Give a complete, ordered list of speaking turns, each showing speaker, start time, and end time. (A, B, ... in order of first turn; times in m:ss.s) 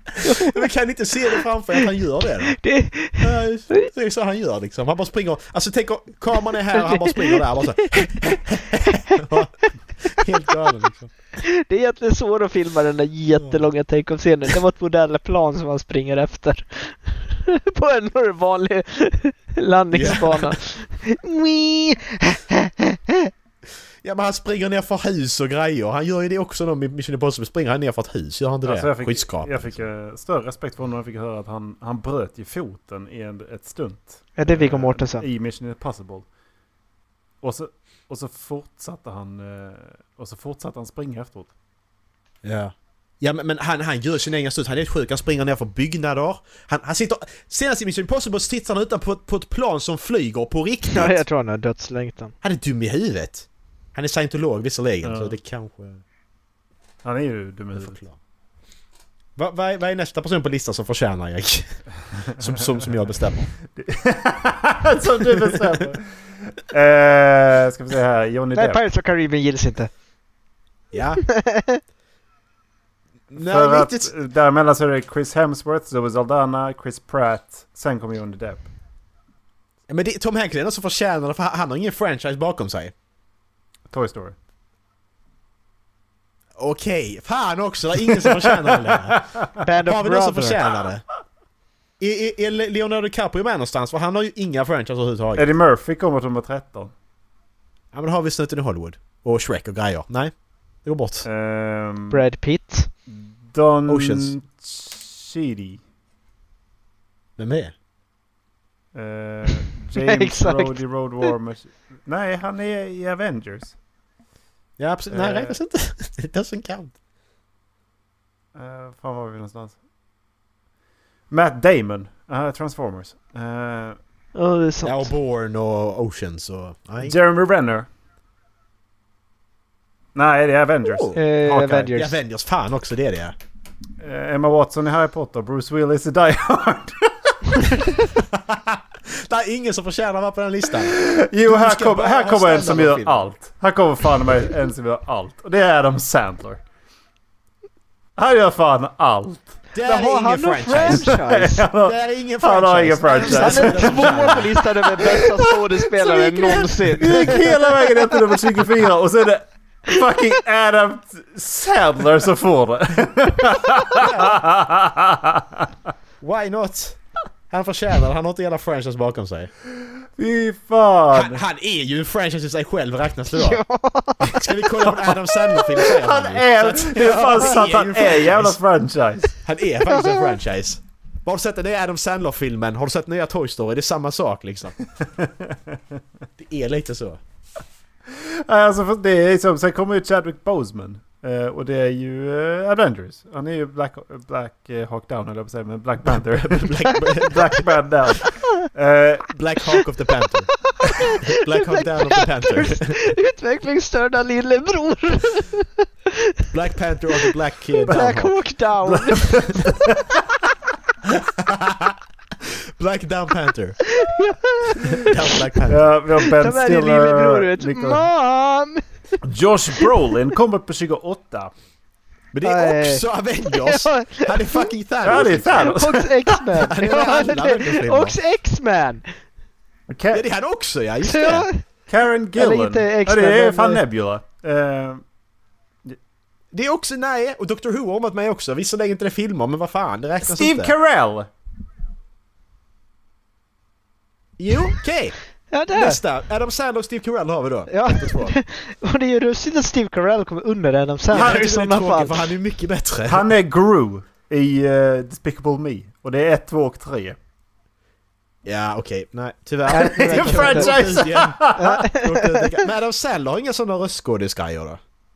0:00.2-0:00.6 A
0:00.3-0:11.1 B
0:02.6-0:03.9 A
0:06.8-0:07.4 A
0:08.0-0:08.3 A
0:11.4-0:23.3 A
0:13.4-0:13.6 B
0:19.9-0:20.6 B
0:24.0-0:29.8 B
0:28.6-0:36.2 C
0:34.4-0:35.2 A
0:37.4-0:41.5 C
0:42.4-0:51.2 B
0:50.9-0:52.3 A
0:52.4-0:56.0 B
0:55.0-0:55.4 C
0:57.0-0:58.0 C
0:57.7-0:58.2 B
0:59.4-1:03.5 B
1:03.7-1:08.8 C
1:05.4-1:05.8 B
1:08.5-1:09.9 A
1:10.9-1:11.2 B
1:11.2-1:11.8 A
1:13.3-1:14.1 B
1:13.3-1:18.7 C
1:19.9-1:22.9 B
1:23.9-1:24.4 C
1:26.6-1:29.3 B
1:28.2-1:29.5 C
1:29.6-1:30.6 A
1:29.8-1:31.0 B
1:32.0-1:35.5 B
1:35.4-1:36.9 C
1:37.9-1:41.3 B
1:41.2-1:42.2 C
1:42.1-1:42.9 A
1:43.1-1:45.8 C
1:43.9-1:44.3 B
1:47.4-1:47.7 B
1:48.9-1:53.8 C
1:50.0-1:51.3 A
1:54.8-1:56.9 B
1:55.1-1:55.6 C
1:58.5-1:59.8 C
2:01.3-2:04.0 C
2:04.3-2:05.1 A
2:04.8-2:07.2 B
2:07.0-2:07.9 C
2:10.1-2:11.1 C
2:10.8-2:13.3 B
2:11.1-2:12.2 A
2:14.0-2:18.0 C
2:18.2-2:23.3 B
2:20.8-2:26.6 C
2:28.2-2:29.6 C
2:29.7-2:31.2 B
2:29.8-2:31.6 A
2:30.8-2:35.3 C
2:31.7-2:35.0 B
2:33.2-2:37.5 A
2:36.0-2:37.5 B
2:36.4-2:45.7 C
2:43.9-2:44.4 B
2:46.2-2:47.0 B
2:47.5-2:49.5 B
2:49.8-2:51.4 C
2:51.1-2:53.6 B
2:53.3-2:54.5 A
2:54.2-2:58.6 B
2:55.6-2:59.3 C
2:59.4-3:04.8 B
2:59.8-3:00.3 A
3:05.2-3:05.8 C
3:06.4-3:07.2 B
3:08.1-3:19.3 C
3:16.0-3:17.6 B
3:19.3-3:20.5 B
3:20.7-3:26.4 A
3:21.3-3:23.0 B
3:26.5-3:28.3 B
3:27.8-3:29.5 A
3:28.9-3:30.1 C
3:31.0-3:33.8 B
3:33.9-3:35.4 A
3:34.9-3:35.8 B
3:35.7-3:38.0 C
3:36.4-3:38.8 A
3:39.2-3:41.5 C
3:42.3-3:45.8 B
3:42.4-3:44.7 A
3:45.0-3:46.4 C
3:45.6-3:49.1 A
3:46.6-3:48.2 B
3:49.9-3:50.2 C
3:50.1-3:51.5 B
3:51.0-3:51.6 A
3:51.9-3:55.0 C
3:52.3-3:53.8 A
3:56.5-4:00.7 B
4:00.2-4:01.3 C
4:04.4-4:05.2 B
4:05.5-4:06.0 A
4:05.7-4:08.4 B
4:07.7-4:12.3 A
4:11.1-4:13.2 B
4:11.1-4:11.5 C
4:13.1-4:17.2 C
4:18.4-4:24.8 B
4:19.7-4:20.8 A
4:19.7-4:21.8 C
4:21.5-4:22.6 A